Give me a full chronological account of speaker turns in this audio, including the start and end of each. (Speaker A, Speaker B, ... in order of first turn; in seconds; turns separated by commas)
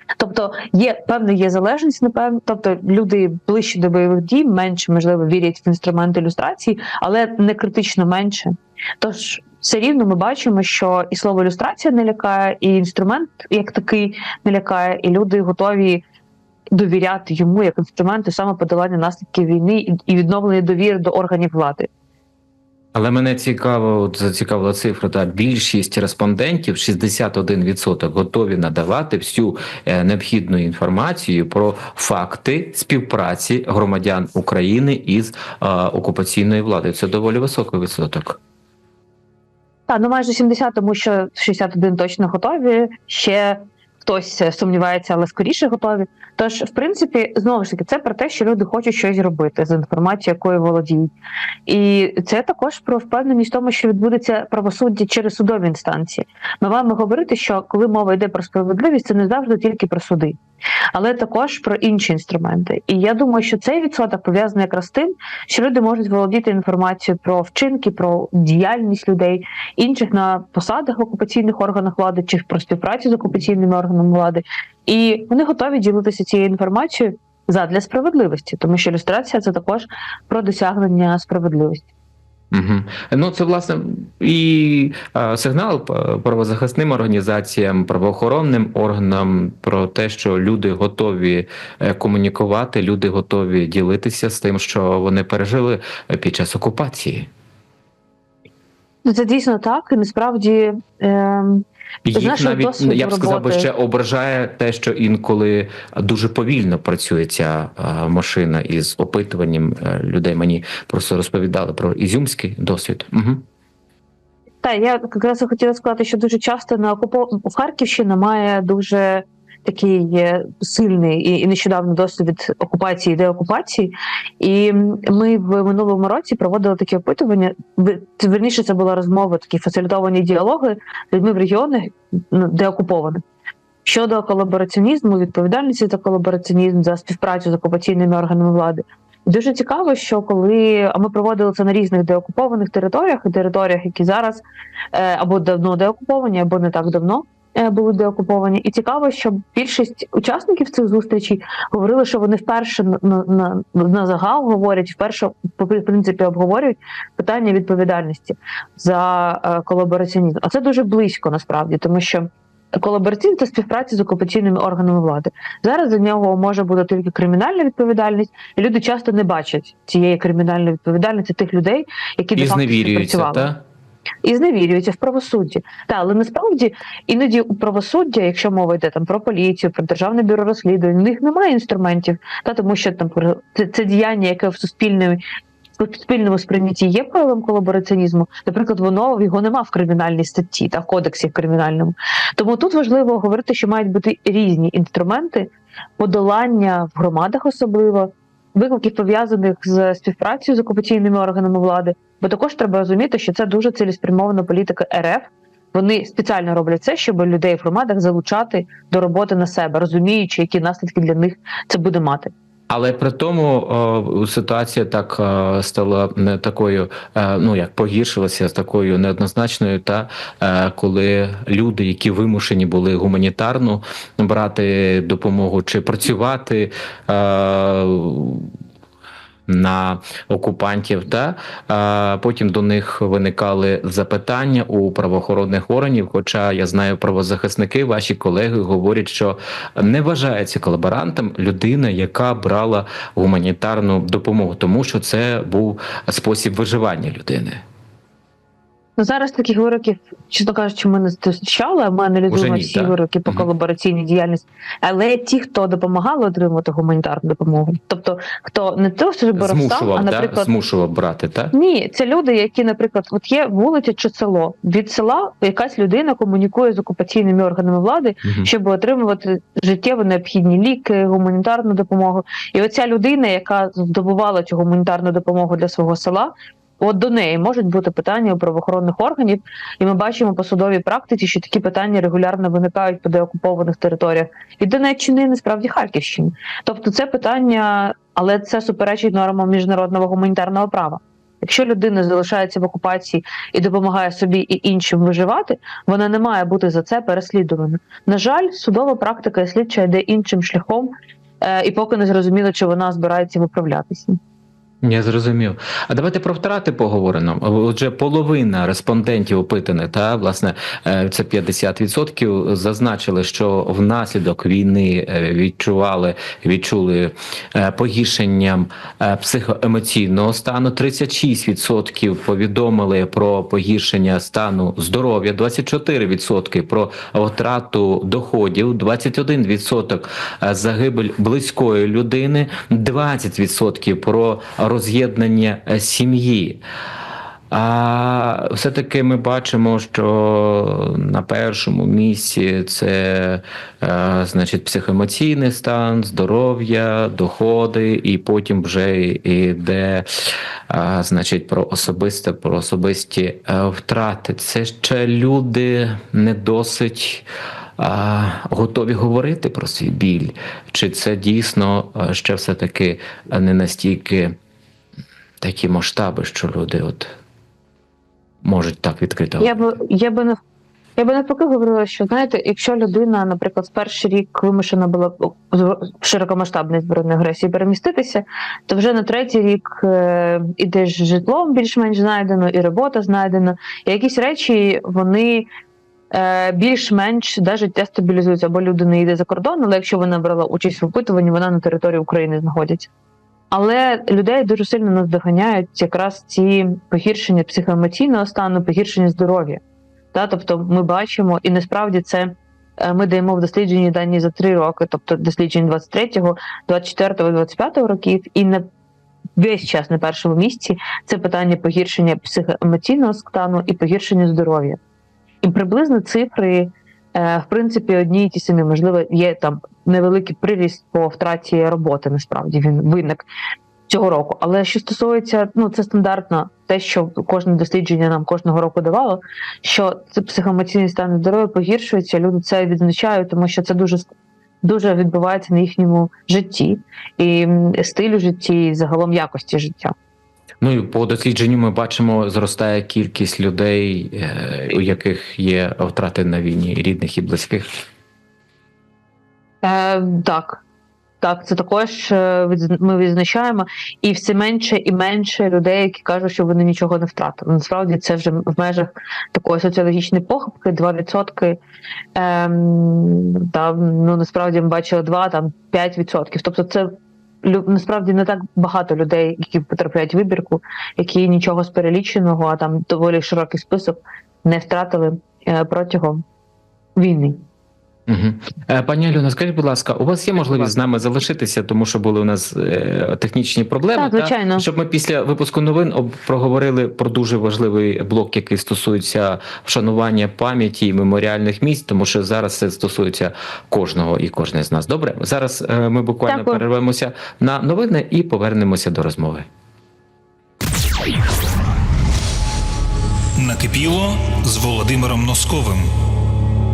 Speaker A: 0.2-16.0, Speaker A: 16.7-21.9, Speaker B: 22.9-38.4, Speaker A: 39.9-51.1, Speaker A: 51.7-60.4, Speaker A: 60.9-81.9, Speaker B: 82.5-97.3, Speaker A: 99.0-103.7, Speaker B: 102.0-113.4, Speaker A: 114.6-133.2, Speaker A: 133.8-173.5, Speaker B: 172.3-173.6, Speaker A: 174.2-185.2, Speaker A: 185.8-212.3, Speaker B: 212.7-228.5, Speaker B: 229.5-247.6, Speaker A: 249.0-260.5, Speaker B: 252.3-253.5, Speaker B: 259.4-261.5, Speaker A: 261.5-300.9, Speaker A: 301.4-304.2, Speaker B: 304.8-336.6, Speaker B: 337.5-350.1, Speaker B: 350.7-357.2, Speaker B: 357.8-364.4, Speaker B: 365.4-367.1, Speaker B: 368.4-369.6, Speaker A: 369.4-370.4, Speaker A: 371.0-385.5, Speaker A: 386.1-392.9, Speaker A: 393.5-399.6, Speaker A: 400.1-408.6, Speaker A: 409.4-414.8, Speaker A: 415.4-423.2, Speaker A: 423.9-434.1, Speaker A: 434.6-439.9, Speaker B: 440.6-447.7, Speaker A: 449.6-450.6, Speaker A: 451.2-461.6, Speaker A: 462.1-476.2, Speaker A: 477.0-477.4, Speaker B: 478.1-499.5, Speaker A: 483.9-484.6, Speaker A: 496.3-496.6, Speaker C: 503.4-505.9